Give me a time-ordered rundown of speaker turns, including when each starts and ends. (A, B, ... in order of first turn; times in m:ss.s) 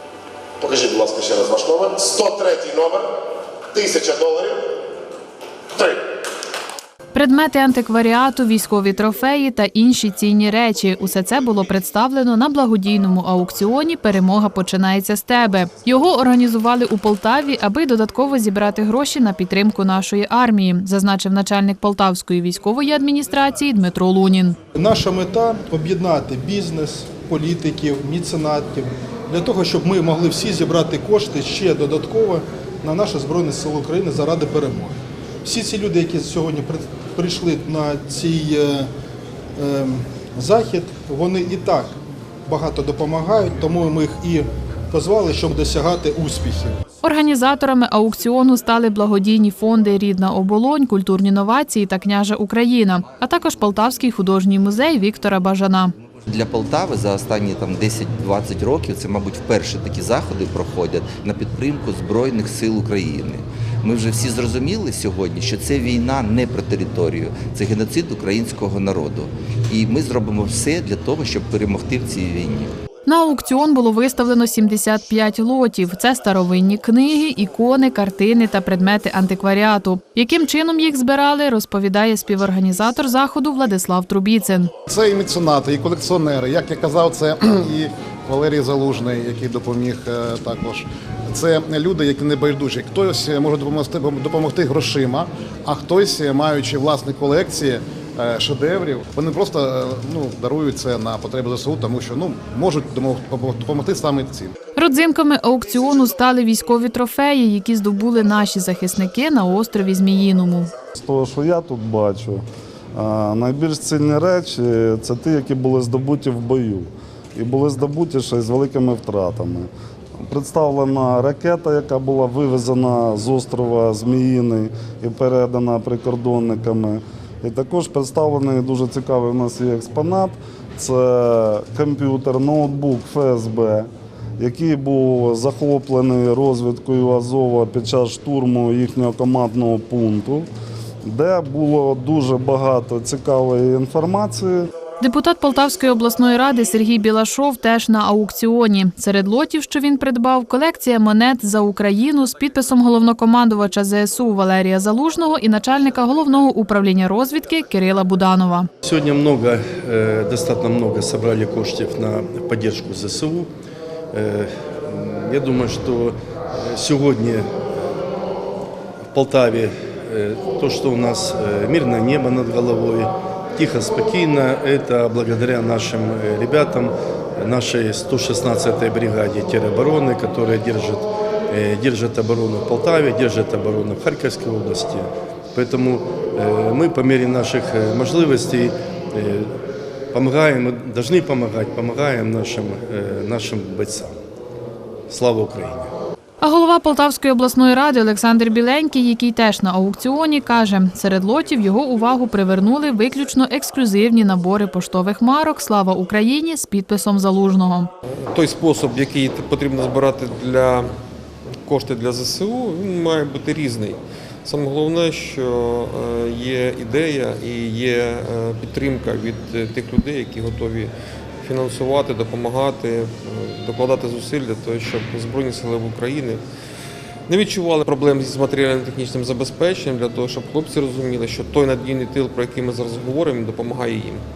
0:00.6-0:03.1 A
0:03.7-0:04.7 A
0:05.7-0:06.0 A
0:07.1-0:24.6 B
0:24.7-0:38.9 C
0:39.6-0:41.9 C
0:42.5-0:46.8 C
0:47.0-0:55.9 B
0:56.3-1:12.7 D
1:13.0-1:24.7 B
1:24.9-1:44.5 E
1:44.8-1:50.7 B
1:51.0-1:52.4 F
1:53.0-1:59.7 F
2:00.2-2:20.5 F
2:21.0-2:24.7 F
2:25.0-2:38.7 B
2:38.8-2:43.5 G
2:44.1-2:47.4 G
2:49.1-3:09.5 G
3:10.1-3:14.2 G
3:15.1-3:15.9 G
3:16.4-3:27.9 B
3:28.1-3:30.9 H
3:31.6-3:46.4 H
3:47.3-3:54.2 H